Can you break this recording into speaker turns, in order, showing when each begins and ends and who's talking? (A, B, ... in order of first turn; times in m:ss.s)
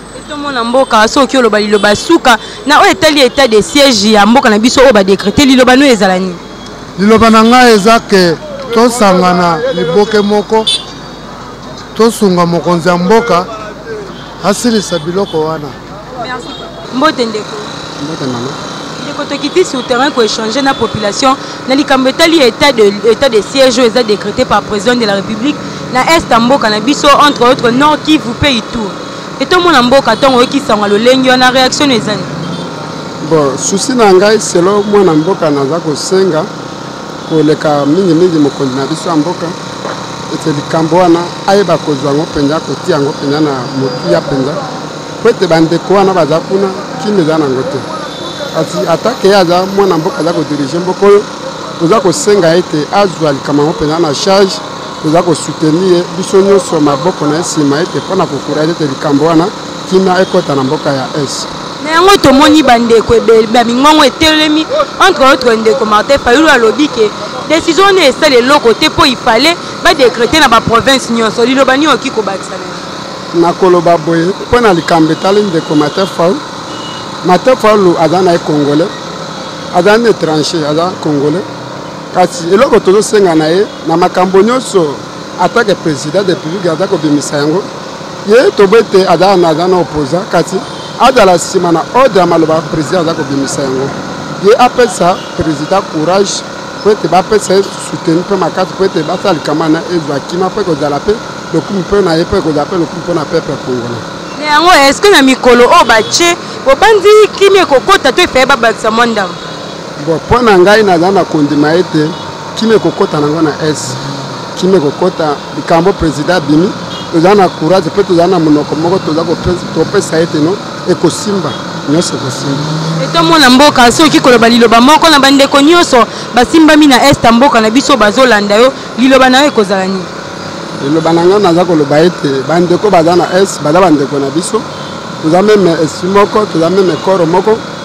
0:00.1-0:06.4 A
0:07.0-0:10.7 B
0:11.9-0:13.5 B
0:14.4-0:15.8 B
0:16.2-0:17.7 A
0:18.0-0:18.6 C
0:19.0-0:32.3 A
0:33.2-0:36.5 C
0:37.3-0:39.6 C
0:40.3-0:44.6 C
0:45.2-0:47.8 C
0:48.5-0:51.3 C
0:51.8-1:01.5 C
1:01.8-1:12.9 A
1:13.3-1:16.4 C
1:17.2-1:18.9 C
1:19.7-1:21.4 C
1:22.1-1:27.7 C
1:28.2-1:44.0 C
1:44.4-1:49.4 A
1:50.0-1:54.0 C
1:54.5-2:02.7 C
2:03.0-2:10.1 A
2:10.8-2:14.6 C
2:15.2-2:17.6 C